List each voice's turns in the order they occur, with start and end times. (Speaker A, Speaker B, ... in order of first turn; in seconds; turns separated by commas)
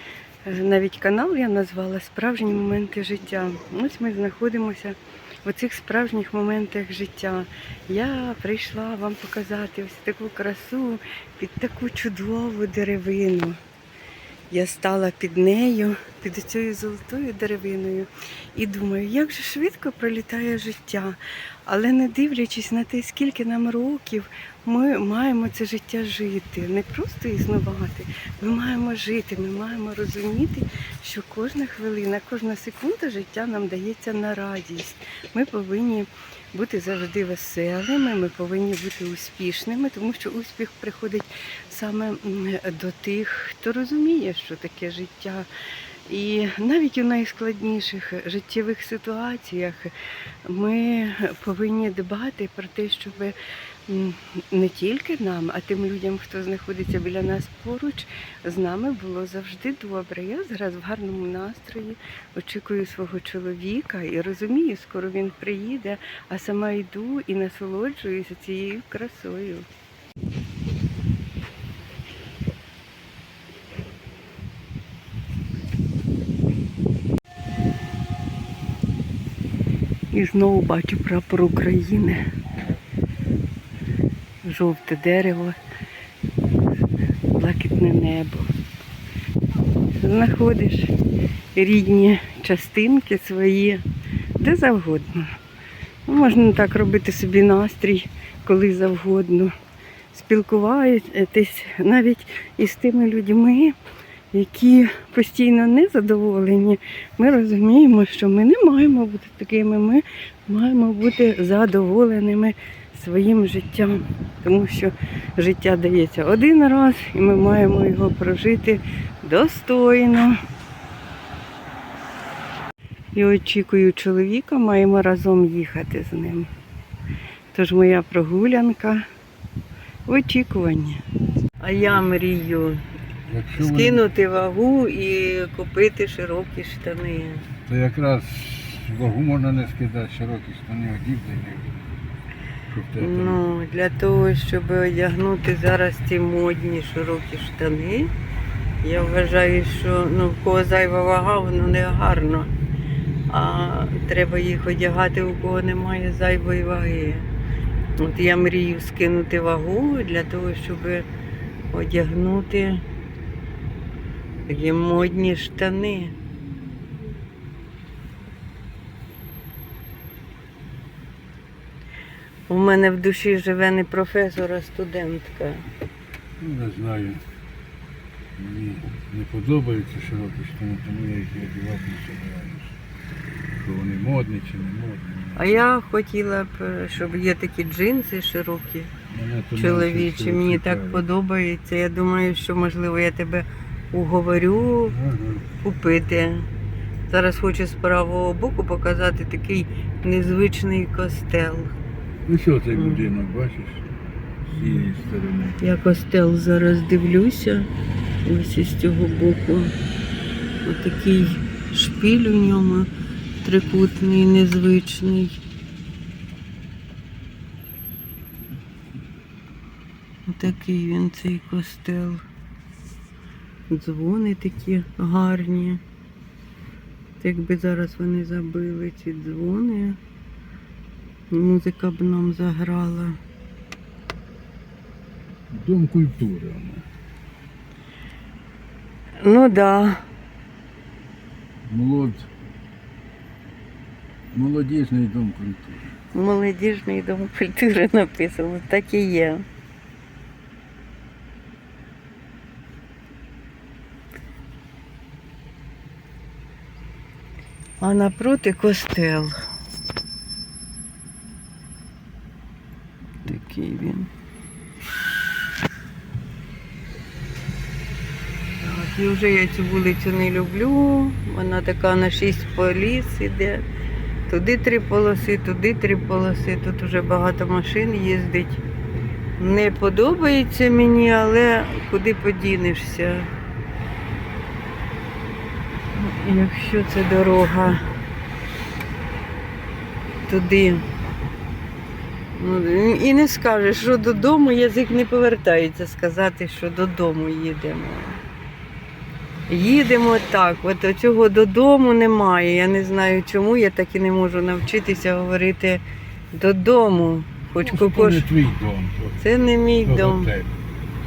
Speaker A: 0.4-13.6, Speaker A: 14.5-45.5, Speaker A: 46.0-49.9, Speaker A: 50.4-69.7, Speaker A: 80.1-82.2, Speaker A: 84.4-85.6, Speaker A: 87.3-88.5, Speaker A: 90.0-90.9, Speaker A: 91.5-93.8, Speaker A: 94.4-95.4, Speaker A: 96.0-99.5, Speaker A: 100.1-103.8, Speaker A: 104.3-120.4, Speaker A: 123.1-126.5, Speaker A: 127.5-129.0, Speaker A: 130.1-131.0, Speaker A: 131.6-132.8, Speaker B: 133.3-134.0, Speaker A: 133.6-137.5, Speaker B: 137.7-141.7, Speaker B: 142.7-143.4, Speaker A: 143.0-148.1, Speaker A: 148.8-152.5, Speaker A: 153.3-157.3, Speaker A: 158.0-161.1, Speaker A: 161.7-162.8, Speaker A: 164.5-166.1, Speaker A: 172.5-175.7, Speaker B: 176.4-177.2, Speaker B: 178.4-182.8, Speaker B: 183.6-185.6, Speaker A: 185.3-188.9, Speaker B: 189.1-191.0, Speaker A: 189.5-194.9, Speaker B: 194.9-195.4, Speaker A: 195.6-196.5, Speaker A: 197.1-201.7, Speaker B: 202.2-205.6, Speaker A: 202.7-203.1, Speaker A: 205.6-207.7, Speaker A: 208.2-209.7, Speaker A: 210.6-212.9, Speaker A: 213.4-215.4, Speaker A: 220.3-222.2, Speaker A: 223.7-225.8, Speaker A: 227.2-230.0, Speaker A: 231.3-233.2, Speaker B: 235.5-236.8, Speaker A: 239.2-240.1, Speaker B: 241.6-242.3, Speaker B: 244.3-245.8, Speaker A: 246.1-249.4, Speaker A: 257.8-259.3, Speaker A: 263.2-264.1, Speaker A: 268.6-273.6, Speaker A: 274.3-278.6, Speaker A: 279.4-283.3, Speaker A: 285.9-287.8, Speaker A: 290.3-290.8, Speaker A: 292.3-298.2, Speaker A: 299.5-305.8, Speaker A: 306.3-308.3, Speaker B: 307.6-309.2, Speaker A: 309.2-310.3, Speaker B: 309.8-310.5